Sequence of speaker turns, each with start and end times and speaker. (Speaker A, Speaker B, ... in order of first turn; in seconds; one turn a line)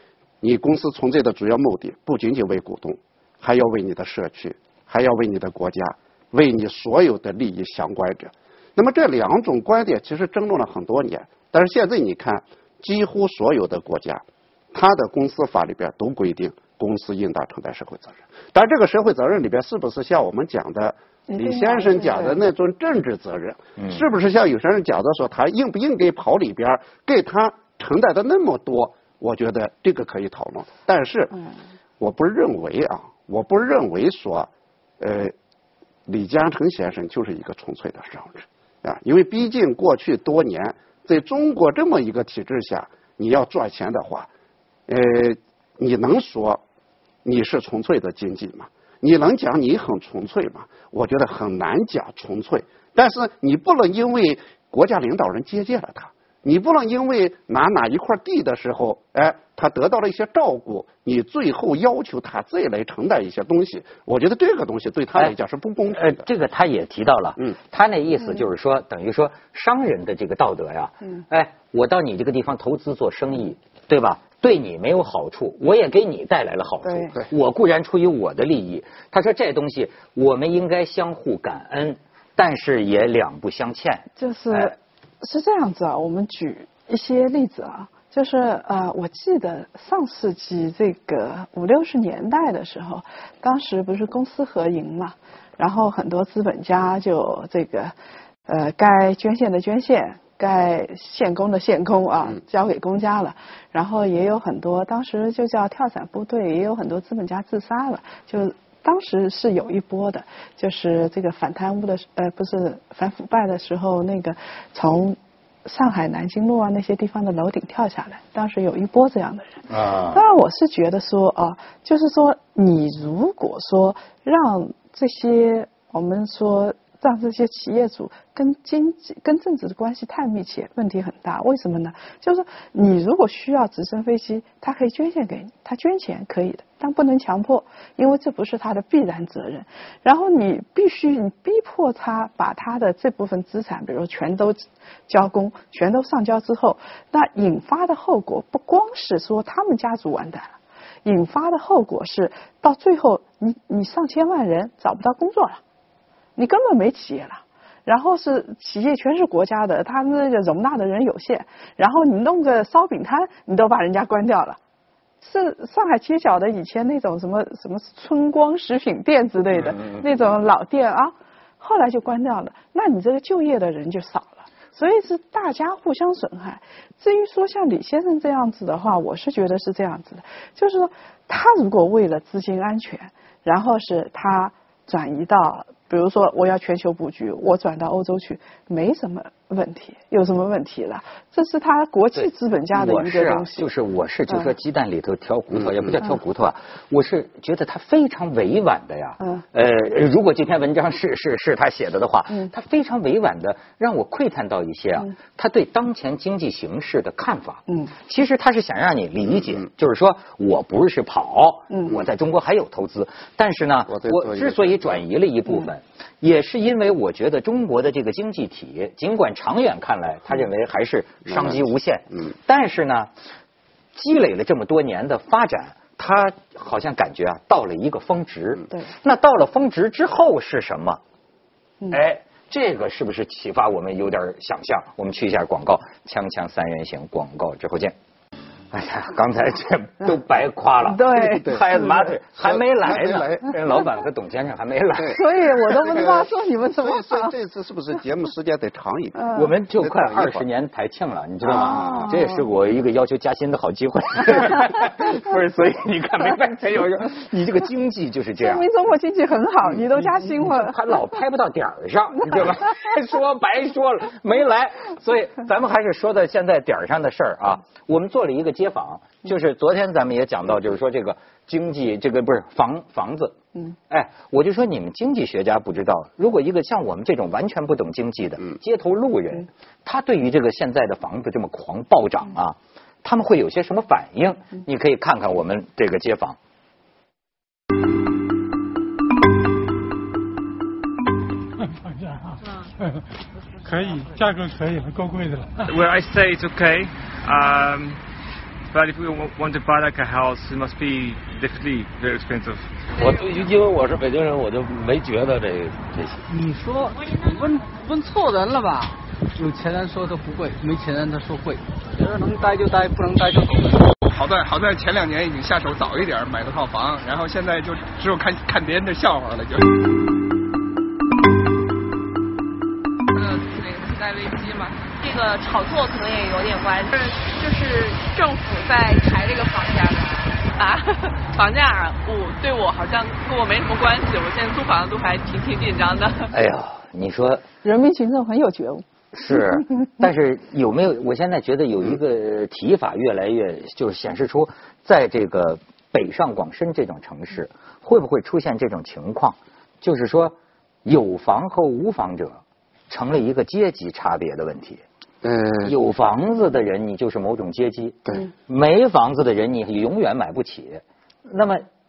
Speaker A: 0.4-31.3
Speaker B: 21.3-22.4
Speaker C: 23.8-24.0
Speaker A: 32.0-35.3
Speaker A: 36.1-44.3
Speaker A: 44.9-46.6
Speaker A: 47.2-66.2
Speaker C: 65.9-84.7
Speaker B: 76.8-77.1
Speaker B: 84.2-97.9
Speaker B: 98.5-155.6
Speaker C: 119.7-120.2
Speaker B: 156.3-164.6
Speaker B: 165.2-193.7
Speaker C: 169.7-170.0
Speaker C: 192.1-223.1
Speaker A: 195.5-195.9
Speaker B: 199.2-199.4
Speaker B: 211.7-212.0
Speaker A: 213.9-215.0
Speaker A: 221.2-221.7
Speaker C: 223.9-231.0
Speaker C: 231.9-237.9
Speaker C: 238.7-245.2
Speaker B: 240.8-241.8
Speaker A: 241.3-241.6
Speaker A: 242.4-243.6
Speaker A: 244.9-245.2
Speaker B: 245.1-247.3
Speaker A: 245.7-249.2
Speaker B: 249.2-249.5
Speaker C: 249.3-258.6
Speaker A: 249.8-250.4
Speaker A: 251.4-252.1
Speaker B: 251.5-252.4
Speaker B: 258.4-260.8
Speaker C: 259.9-273.4
Speaker C: 273.9-286.4
Speaker D: 291.8-293.0
Speaker D: 293.6-295.7
Speaker E: 295.7-298.0
Speaker E: 298.7-302.7
Speaker F: 302.9-306.2
Speaker G: 306.3-313.9
Speaker H: 314.0-319.8
Speaker I: 323.1-336.3
Speaker C: 336.3-337.4
Speaker B: 337.6-339.6
Speaker C: 339.1-354.8
Speaker A: 355.2-355.7
Speaker C: 355.6-361.6